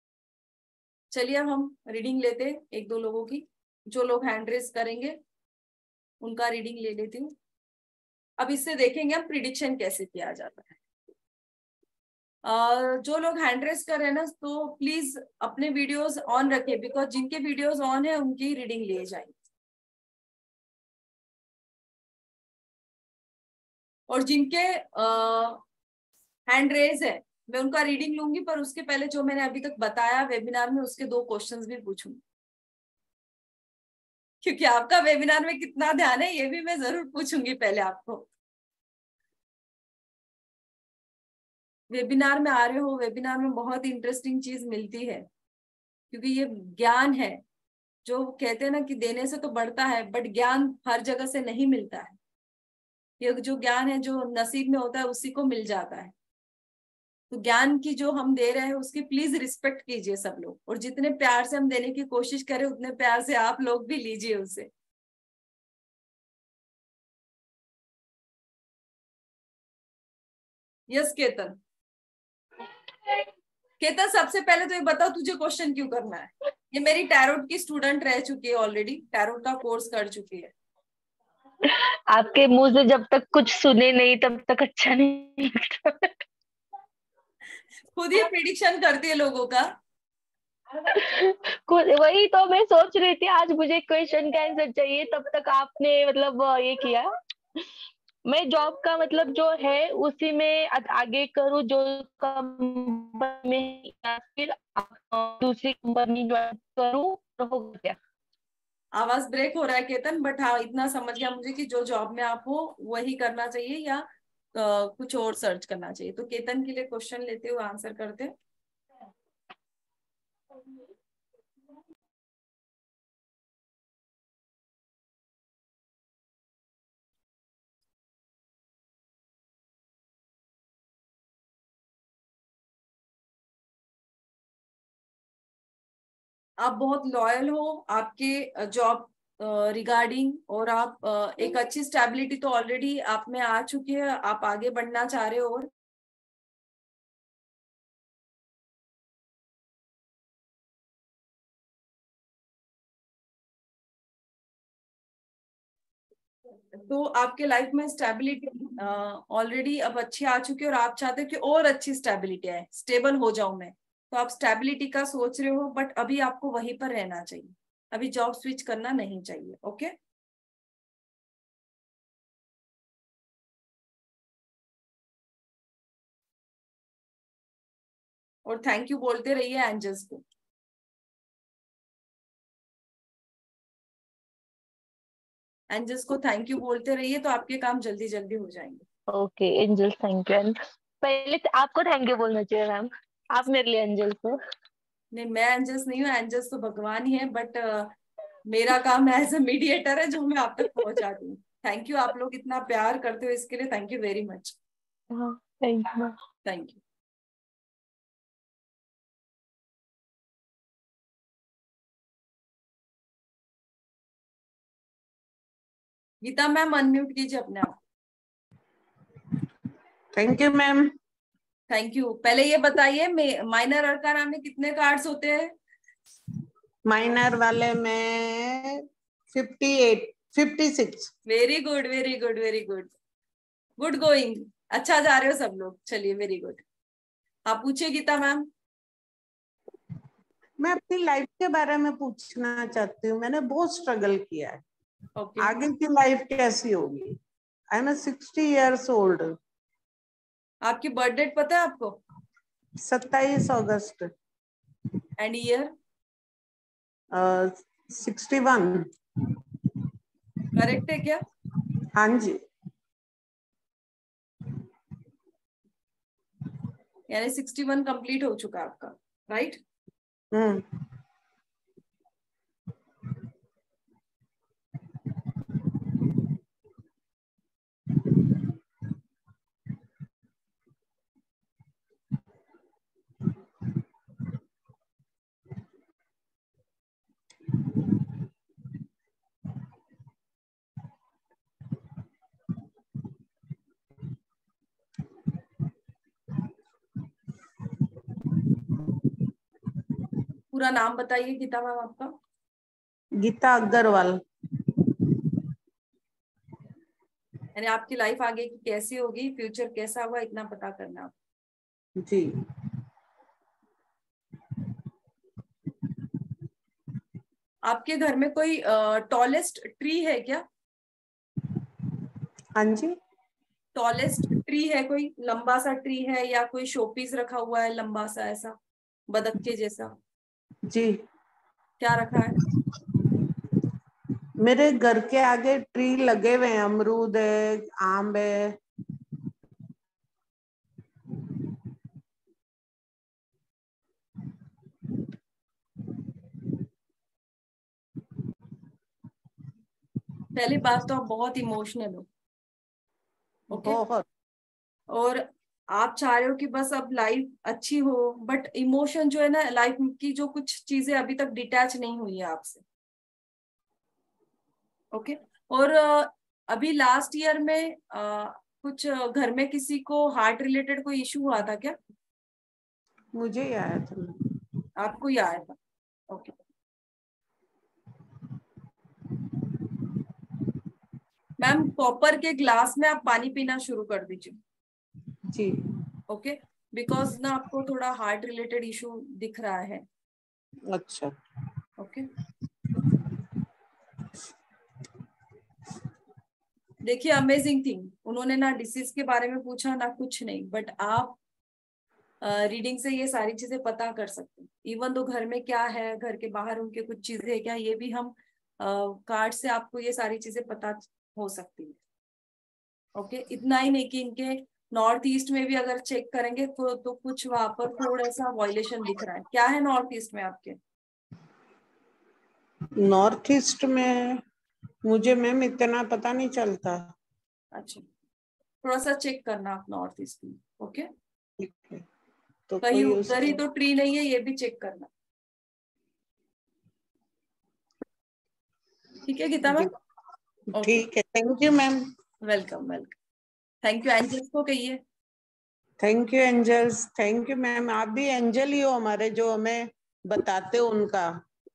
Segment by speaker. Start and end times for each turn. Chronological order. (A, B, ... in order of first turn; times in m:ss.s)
0:01.1-0:05.2 A
0:06.2-0:07.3 A
0:08.4-0:10.8 A
0:12.4-0:19.3 A
0:24.1-0:25.6 A
0:26.5-0:32.2 A
0:34.4-0:38.3 A
0:41.9-0:45.3 A
0:46.1-0:47.4 A
0:48.1-0:52.2 A
0:53.2-0:56.1 A
0:57.3-1:04.7 A
1:10.9-1:11.6 A
1:13.8-1:20.5 A
1:21.6-1:26.2 B
1:28.0-1:29.7 A
1:30.9-1:37.1 B
1:38.3-1:48.0 B
1:49.0-1:58.3 A
2:16.6-2:25.7 A
2:36.7-2:49.9 A
2:58.5-3:00.2 A
3:05.7-3:08.8 A
3:09.1-3:14.4 B
3:15.1-3:17.9 A
3:18.5-3:24.6 A
3:25.1-3:26.2 B
3:26.5-3:26.8 A
3:36.2-3:37.7 A
3:40.2-3:40.9 C
3:41.7-3:45.5 A
3:46.9-3:51.1 C
3:51.3-3:52.9 A
3:53.8-3:56.6 A
3:57.5-3:58.5 A
4:00.6-4:04.6 C
4:05.2-4:05.6 A
4:05.4-4:07.2 C
4:07.7-4:09.4 C
4:10.6-4:12.0 A
4:12.8-4:14.1 C
4:15.2-4:15.7 A
4:17.1-4:18.9 C
4:20.6-4:21.2 A
4:22.0-4:22.4 C
4:27.1-4:29.6 A
4:30.3-4:30.7 C
5:00.5-5:02.1 A
5:03.2-5:04.2 C
5:07.6-5:11.1 A
5:12.0-5:12.3 C
5:17.6-5:20.4 A
5:22.6-5:23.0 C
5:23.8-5:28.6 A
5:29.1-5:29.9 A
5:30.7-5:31.0 C
5:31.8-5:32.4 A
5:34.4-5:38.6 C
5:50.4-5:52.1 A
5:53.5-5:53.8 A
5:53.5-5:54.0 C
5:54.9-6:02.6 A
6:04.9-6:11.8 A
6:13.2-6:14.2 C
6:14.8-6:15.6 A
6:21.4-6:24.4 A
6:25.3-6:25.6 C
6:26.1-6:29.8 A
6:30.7-6:31.2 C
6:31.8-6:32.1 A
6:36.8-6:41.2 A
6:42.2-6:51.8 A
6:53.0-7:00.6 A
7:02.8-7:04.2 C
7:04.9-7:06.9 C
7:07.5-7:07.8 A
7:08.6-7:10.9 A
7:11.4-7:11.8 C
7:12.5-7:13.4 C
7:12.6-7:14.9 A
7:19.0-7:19.7 A
7:20.6-7:21.9 C
7:20.6-7:20.9 A
7:22.2-7:23.0 A
7:23.6-7:24.8 A
7:25.8-7:31.2 C